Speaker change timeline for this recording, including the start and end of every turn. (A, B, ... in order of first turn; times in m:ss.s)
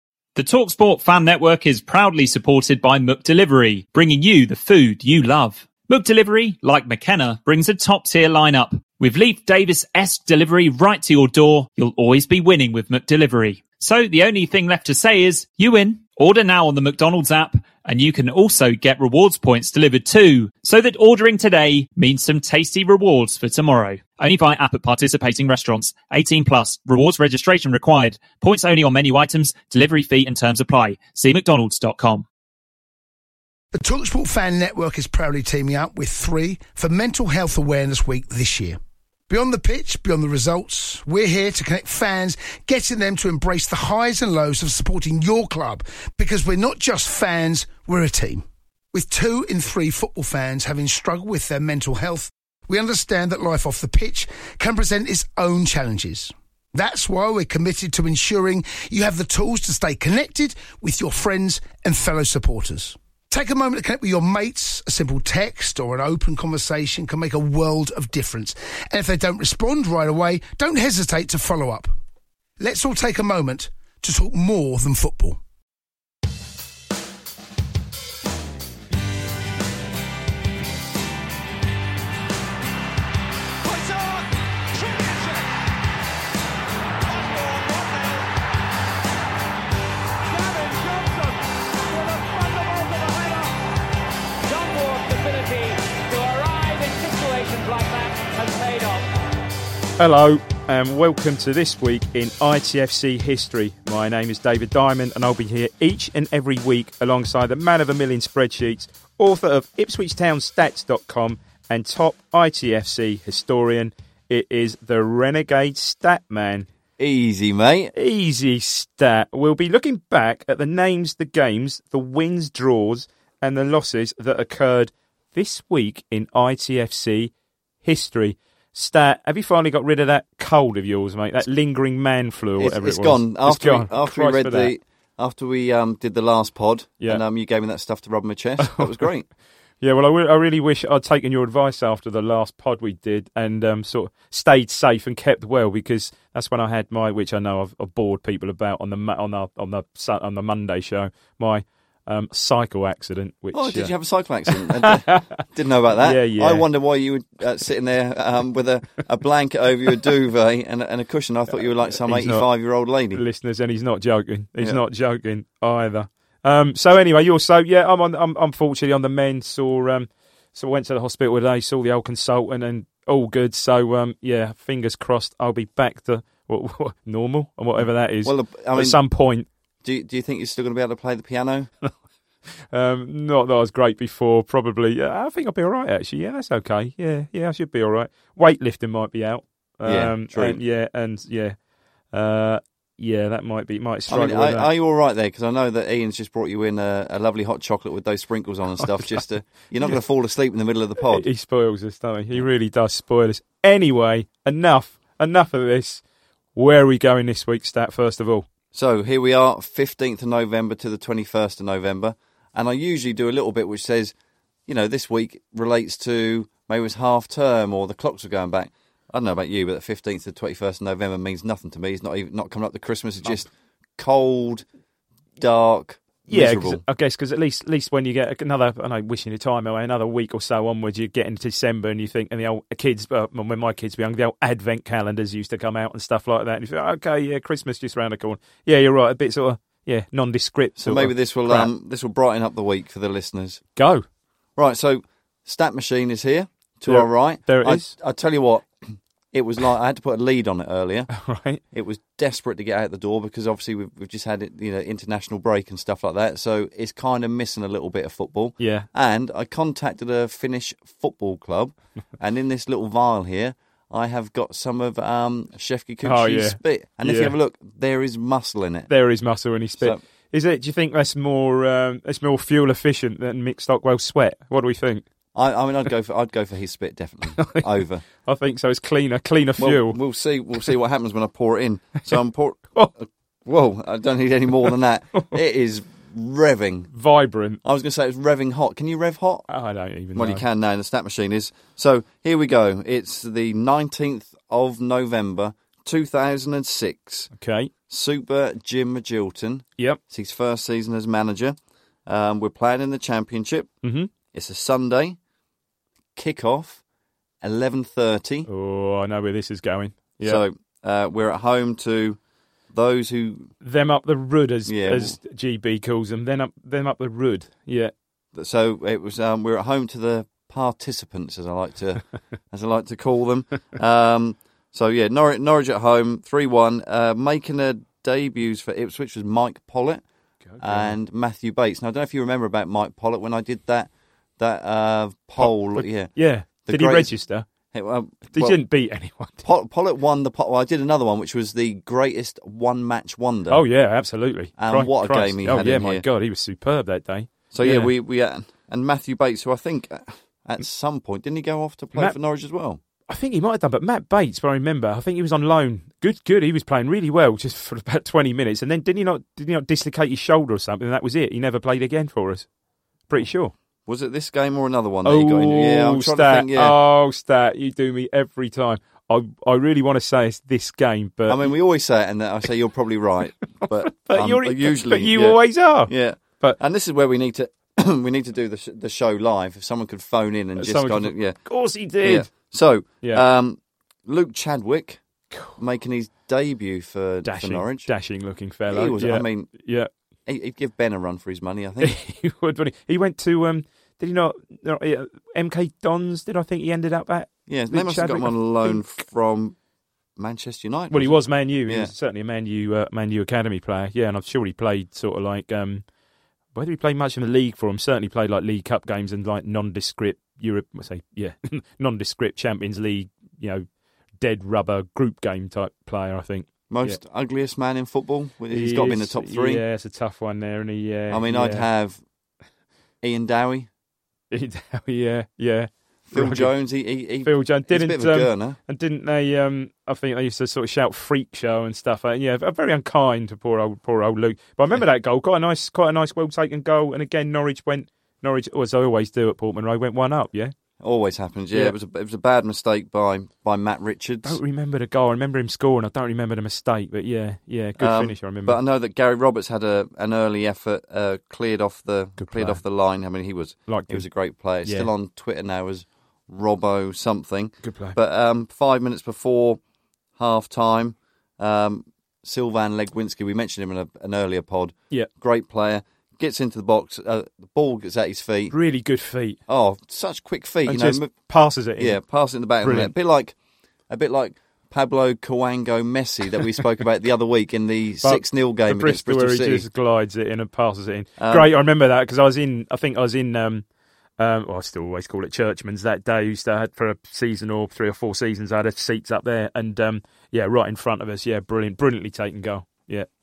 0:00.4-0:32.2 A
0:33.7-0:38.8 B
0:39.3-1:11.9 B
1:12.6-1:15.4 B
1:23.6-1:25.5 C
1:27.0-1:28.3 C
1:30.3-1:33.6 C
1:34.4-1:39.1 C
1:40.0-1:56.7 D
1:57.0-1:57.9 E
1:57.9-2:07.3 D
2:07.8-2:14.7 D
2:12.6-2:19.3 E
2:18.6-2:19.0 D
2:19.8-2:33.9 D
2:33.5-2:43.2 E
2:34.5-2:36.7 D
2:41.5-2:42.5 D
2:43.1-2:59.5 D
2:57.8-2:59.0 E
2:59.8-3:01.7 E
3:02.7-3:11.6 D
3:09.8-3:10.6 E
3:12.1-3:14.7 D
3:14.1-3:21.3 E
3:18.8-3:19.2 D
3:21.0-3:26.0 D
3:26.5-3:28.5 D
3:28.7-3:34.1 E
3:34.7-3:44.6 E
3:45.4-3:46.8 E
3:46.3-4:01.7 D
4:00.8-4:03.6 E
4:03.8-4:04.0 D
4:04.6-4:11.1 E
4:06.8-4:07.9 D
4:11.1-4:11.6 D
4:11.7-4:28.9 E
4:18.6-4:18.9 D
4:26.0-4:27.3 D
4:28.9-4:35.0 D
4:35.3-4:38.0 E
4:37.4-4:37.6 D
4:38.2-4:40.0 D
4:39.6-4:46.9 E
4:46.9-4:47.6 D
4:47.6-4:49.5 E
4:49.5-4:50.4 D
4:50.1-4:57.3 E
4:57.3-4:57.7 D
4:57.9-5:03.7 E
5:03.8-5:04.1 D
5:04.3-5:05.2 E
5:06.1-5:06.8 E
5:07.4-5:08.5 E
5:08.5-5:10.4 D
5:10.2-5:12.2 E
5:12.7-5:13.5 E
5:13.6-5:17.9 D
5:14.6-5:15.2 E
5:18.3-5:30.0 E
5:30.4-5:30.9 D
5:30.6-5:36.1 E
5:35.4-5:37.4 D
5:36.6-5:37.2 E
5:37.7-5:38.6 E
5:38.3-5:39.4 D
5:39.4-5:43.6 E
5:43.5-5:47.9 D
5:44.6-5:46.0 E
5:47.5-5:52.8 E
5:53.1-6:02.5 D
6:03.1-6:03.5 D
6:03.8-6:06.8 E
6:05.0-6:11.5 D
6:11.3-6:21.4 E
6:13.6-6:16.6 D
6:20.6-6:22.5 D
6:22.0-6:25.0 E
6:25.6-6:27.9 E
6:27.2-6:29.9 D
6:28.7-6:29.5 E
6:30.2-6:32.0 E
6:31.8-6:38.8 D
6:37.5-6:39.5 E
6:40.2-6:41.9 E
6:40.9-6:45.8 D
6:46.5-6:53.6 D
6:54.2-6:57.0 D
6:56.7-6:59.6 E
6:58.5-7:01.7 D
7:01.1-7:02.0 E
7:03.0-7:03.7 E
7:04.3-7:06.5 D
7:06.1-7:08.6 E
7:07.2-7:20.5 D
7:20.8-7:24.4 E
7:24.2-7:28.6 D
7:27.8-7:39.6 E
7:32.2-7:32.6 D
7:33.7-7:34.1 D
7:34.6-7:34.9 D
7:37.6-7:38.0 D
7:40.2-7:48.5 E
7:48.5-7:49.4 D
7:49.5-7:51.1 E
7:50.6-7:52.0 D
7:51.8-7:53.3 E
7:52.6-7:52.9 D
7:53.9-7:59.6 E
7:58.0-8:03.6 D
8:01.2-8:01.5 E
8:04.2-8:13.1 D